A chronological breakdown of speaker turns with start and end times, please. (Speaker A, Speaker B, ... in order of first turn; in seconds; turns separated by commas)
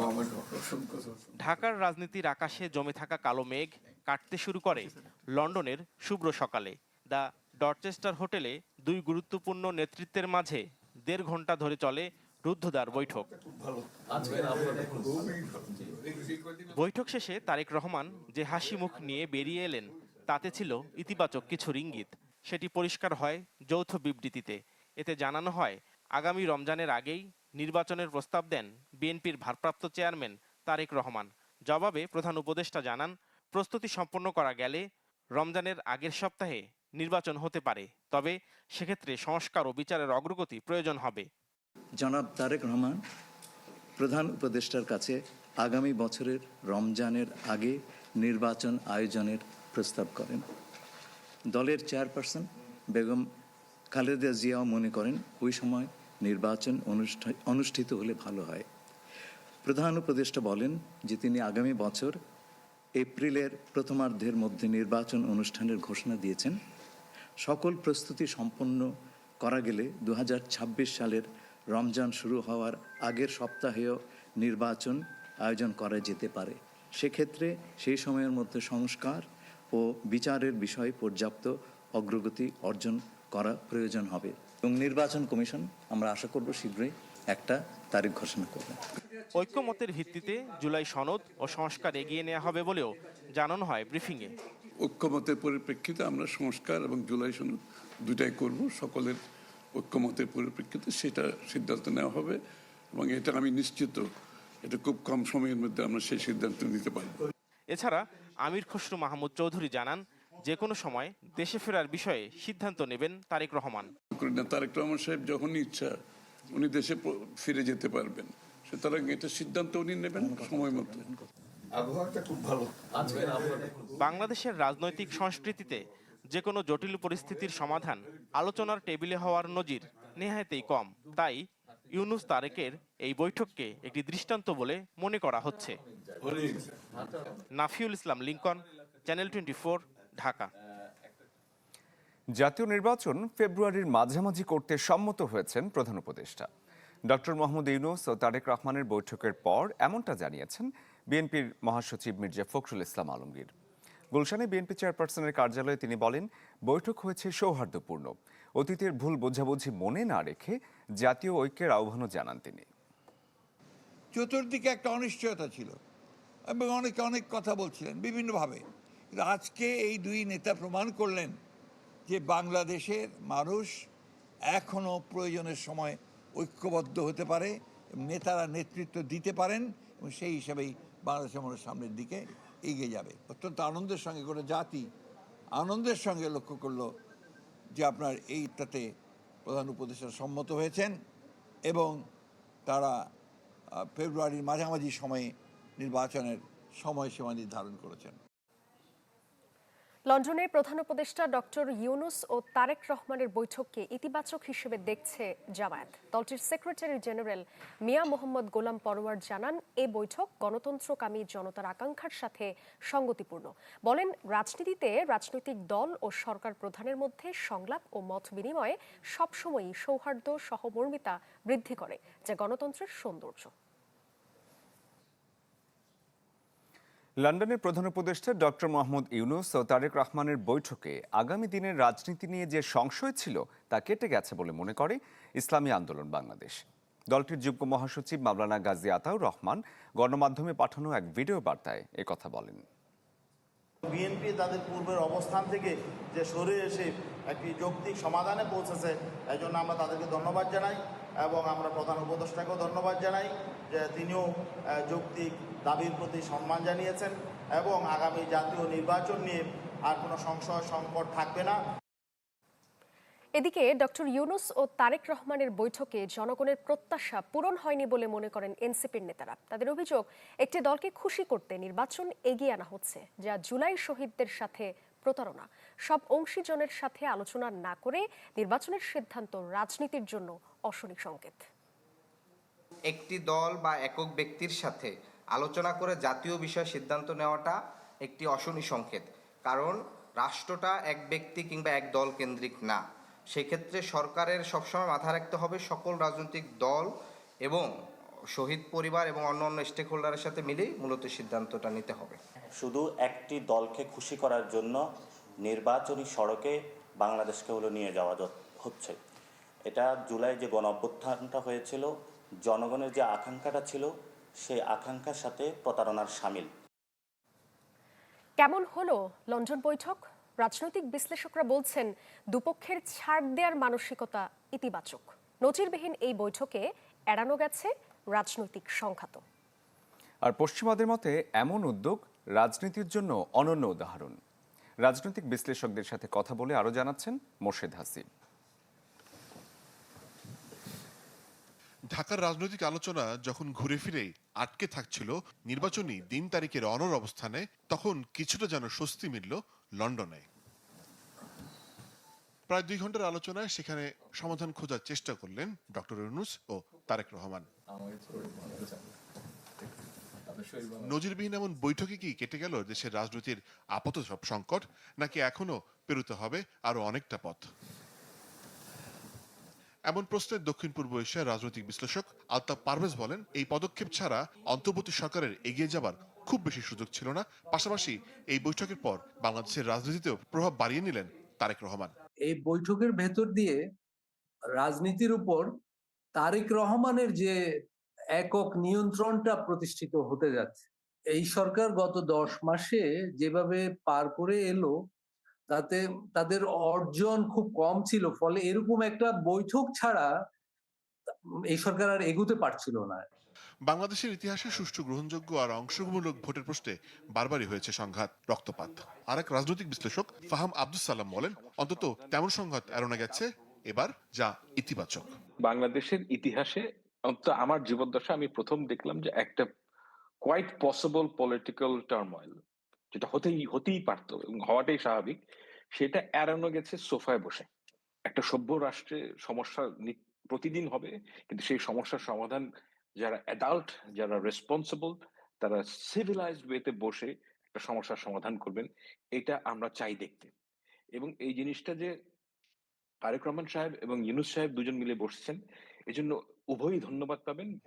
Speaker A: 1.4-13.3, Speaker A: 16.7-34.9, Speaker A: 35.4-41.3, Speaker B: 42.0-43.0, Speaker B: 44.0-50.5, Speaker B: 51.5-53.3, Speaker B: 53.9-58.7, Speaker B: 59.6-62.2, Speaker B: 63.0-66.6, Speaker B: 67.4-68.9, Speaker B: 69.4-88.8, Speaker A: 89.4-94.3, Speaker C: 94.8-99.2, Speaker C: 99.8-102.4, Speaker C: 103.0-104.1, Speaker C: 104.7-107.2, Speaker A: 107.7-113.9, Speaker C: 114.2-115.9, Speaker C: 116.6-121.0, Speaker B: 120.2-121.2, Speaker A: 124.0-125.8, Speaker A: 126.3-135.8, Speaker A: 137.6-140.5, Speaker D: 142.4-146.5, Speaker D: 147.1-153.5, Speaker D: 154.1-162.7, Speaker E: 164.1-165.8, Speaker E: 166.5-168.6, Speaker E: 169.1-171.4, Speaker E: 172.1-173.8, Speaker E: 174.5-184.9, Speaker E: 185.6-186.9, Speaker E: 187.8-188.9, Speaker E: 189.5-190.9, Speaker E: 191.7-192.0, Speaker E: 192.7-193.1, Speaker E: 193.8-198.2, Speaker F: 200.1-223.5, Speaker D: 227.2-242.7, Speaker G: 243.9-254.3, Speaker G: 254.9-261.6, Speaker F: 263.4-281.5, Speaker H: 282.9-296.9, Speaker H: 298.4-302.2, Speaker I: 302.6-304.8, Speaker I: 305.4-309.0, Speaker I: 309.7-311.9, Speaker I: 312.5-316.5, Speaker F: 318.4-329.2, Speaker D: 330.3-334.2, Speaker D: 334.8-338.1, Speaker J: 341.9-350.2, Speaker J: 352.5-357.5, Speaker J: 360.9-367.5, Speaker J: 369.9-381.9, Speaker K: 382.3-383.6, Speaker K: 384.6-385.5, Speaker K: 386.2-387.3, Speaker K: 388.2-394.7, Speaker K: 395.5-400.1, Speaker K: 401.5-403.1, Speaker J: 403.7-415.1, Speaker L: 411.2-413.2, Speaker L: 415.4-419.5, Speaker L: 420.2-422.4, Speaker L: 422.9-425.2, Speaker L: 425.8-427.5, Speaker L: 428.1-432.5, Speaker L: 433.0-440.3, Speaker L: 441.0-441.9, Speaker L: 443.1-447.5